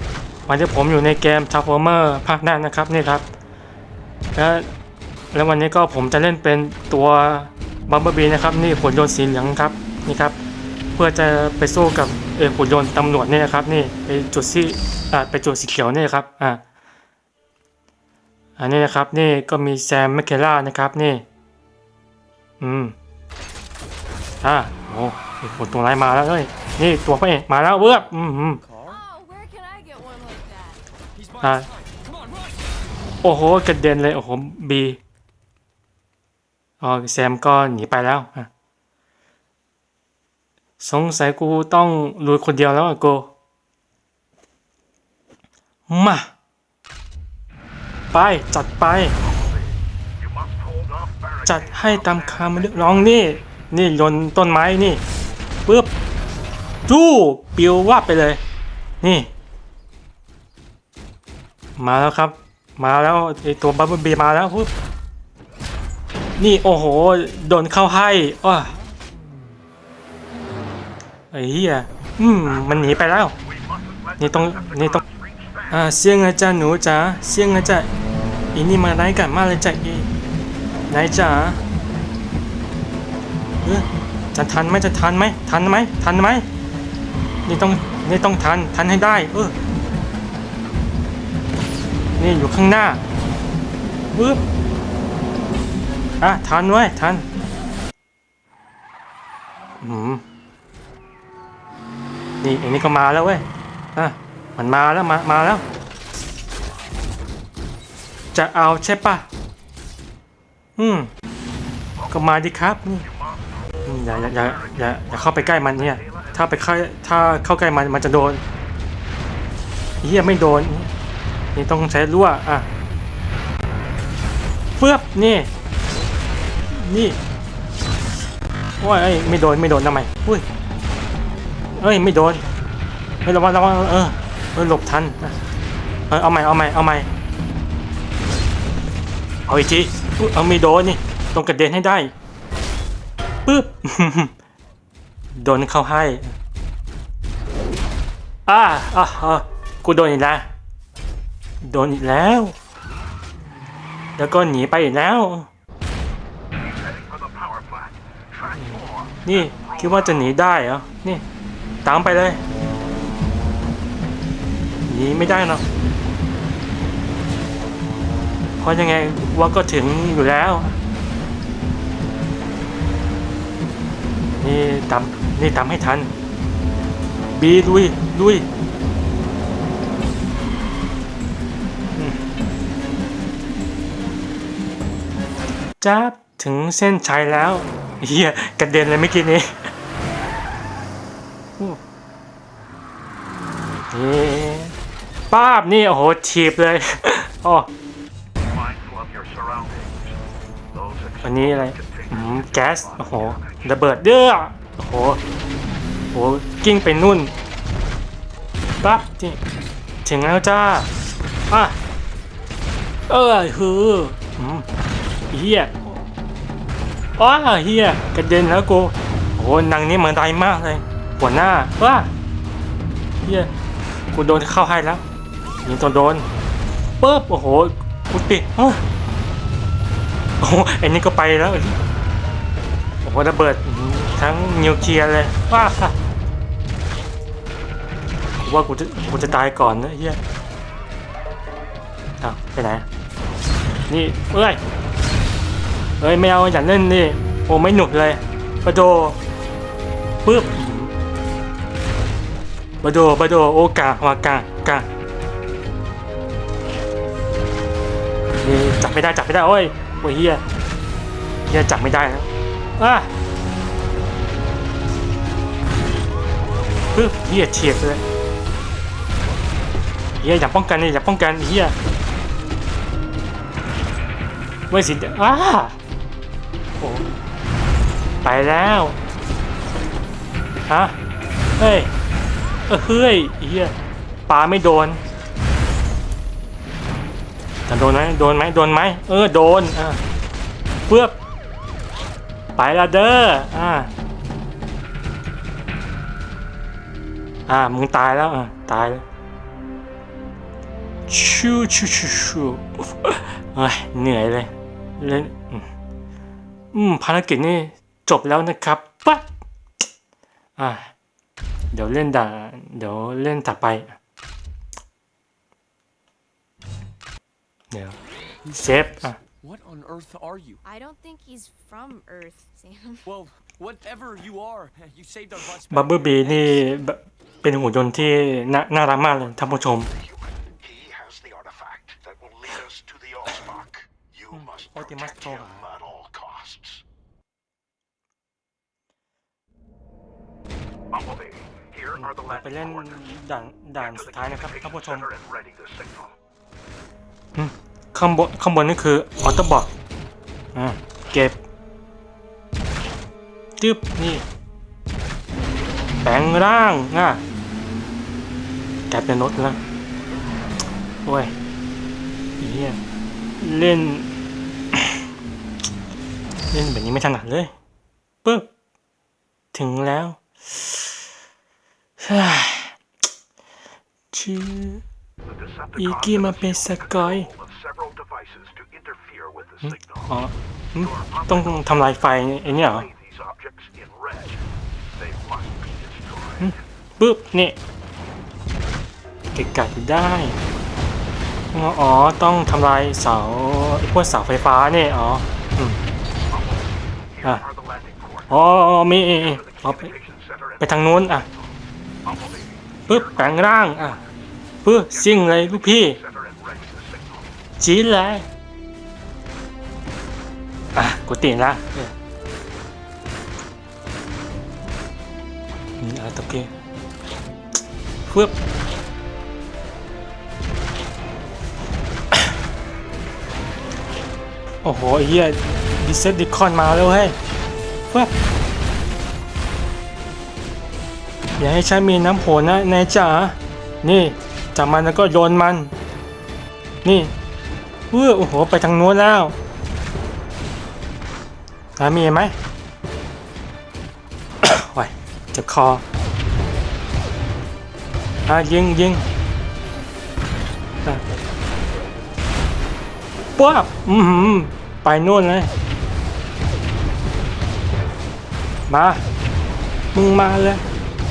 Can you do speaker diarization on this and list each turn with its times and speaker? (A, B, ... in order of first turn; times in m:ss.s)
0:00.5-0:03.3 A
0:04.4-0:04.7 A
0:05.3-0:10.4 A
0:11.0-0:16.6 A
0:18.6-0:21.2 A
0:22.6-0:22.9 A
0:24.4-0:28.6 A
0:28.7-0:29.0 B
0:28.8-0:30.8 C
0:31.2-0:32.5 B
0:31.4-0:31.7 A
0:33.2-0:35.0 A
0:36.8-0:38.5 A
0:40.8-0:43.3 A
0:45.9-0:46.3 A
0:48.1-0:49.1 A
0:51.4-0:55.0 A
0:55.7-0:55.9 A
0:56.9-0:58.4 A
0:59.0-0:59.3 A
1:01.8-1:04.7 A
1:06.4-1:08.8 A
1:11.3-1:13.4 A
1:14.2-1:15.0 A
1:15.7-1:17.9 A
1:18.5-1:20.1 A
1:20.9-1:21.6 A
1:23.6-1:26.4 A
1:27.4-1:29.6 A
1:32.2-1:33.0 A
1:34.1-1:34.4 A
1:36.2-1:37.2 A
1:39.8-1:40.2 A
1:42.4-1:45.6 A
1:48.3-1:49.2 A
1:50.8-1:51.1 A
1:52.1-1:53.1 A
1:53.8-1:58.4 A
2:00.0-2:00.9 A
2:01.5-2:02.7 A
2:04.8-2:05.5 A
2:06.7-2:07.2 A
2:08.8-2:10.5 A
2:11.8-2:12.4 A
2:13.2-2:15.4 A
2:16.1-2:17.1 A
2:19.5-2:22.1 A
2:23.5-2:24.3 A
2:25.4-2:26.4 A
2:28.5-2:30.5 A
2:31.6-2:32.6 A
2:34.2-2:35.5 A
2:38.5-2:41.2 A
2:41.8-2:42.4 A
2:44.9-2:45.6 A
2:48.6-2:50.8 A
2:54.4-2:56.1 A
2:57.4-2:58.5 A
3:02.0-3:02.2 A
3:05.8-3:09.7 A
3:13.9-3:14.8 A
3:15.3-3:17.7 A
3:19.2-3:19.8 D
3:21.2-3:25.2 A
3:26.1-3:27.3 A
3:28.8-3:29.4 A
3:30.0-3:30.9 A
3:31.5-3:31.8 A
3:33.1-3:34.7 A
3:35.3-3:36.0 A
3:37.2-3:42.1 A
3:43.2-3:43.5 A
3:44.1-3:45.0 A
3:45.6-3:46.3 A
3:47.0-3:48.8 A
3:50.4-3:51.8 A
3:53.0-3:56.0 A
3:58.4-4:00.2 A
4:02.2-4:02.9 A
4:03.9-4:04.6 A
4:06.0-4:09.2 A
4:10.2-4:10.9 A
4:12.8-4:14.9 A
4:18.4-4:20.4 A
4:21.5-4:23.1 A
4:26.9-4:28.0 A
4:30.2-4:31.8 A
4:34.7-4:35.8 A
4:36.8-4:37.1 A
4:38.2-4:39.0 A
4:40.7-4:41.0 A
4:41.6-4:41.9 A
4:42.7-4:43.8 A
4:44.3-4:45.0 A
4:47.7-4:50.0 A
4:50.9-4:51.2 A
4:52.6-4:53.9 A
4:57.5-4:59.0 A
5:01.1-5:05.7 A
5:06.7-5:09.3 A
5:10.6-5:10.9 A
5:11.7-5:14.0 A
5:17.7-5:18.0 A
5:18.5-5:19.2 A
5:19.4-5:20.6 B
5:20.4-5:23.2 C
5:23.1-5:26.5 B
5:25.7-5:29.9 A
5:30.2-5:34.7 D
5:34.3-5:35.7 A
5:35.5-5:36.8 D
5:41.9-5:45.1 A
5:47.4-5:49.7 A
5:50.6-5:51.4 A
5:53.6-5:54.2 A
5:56.0-5:57.2 A
5:58.9-5:59.6 A
6:01.0-6:01.3 A
6:02.4-6:02.8 A
6:03.4-6:04.1 A
6:06.5-6:07.5 A
6:08.2-6:08.5 A
6:09.5-6:10.9 A
6:12.0-6:12.8 A
6:14.1-6:14.8 A
6:15.7-6:17.4 A
6:17.8-6:19.6 D
6:19.6-6:22.9 A
6:23.0-6:24.3 D
6:25.1-6:26.2 D
6:26.4-6:27.6 A
6:29.3-6:30.4 A
6:31.5-6:35.8 A
6:38.3-6:39.9 A
6:40.6-6:41.3 A
6:42.9-6:44.0 A
6:44.6-6:46.0 A
6:47.6-6:48.3 A
6:50.8-6:51.9 A
6:55.8-6:56.5 A
6:58.1-6:58.3 A
7:04.6-7:07.2 A
7:11.4-7:15.7 A
7:16.8-7:17.1 A
7:17.9-7:19.4 A
7:21.8-7:22.4 A
7:24.4-7:25.8 A
7:28.2-7:29.0 A
7:33.4-7:35.5 A
7:38.7-7:39.0 A
7:39.9-7:40.6 A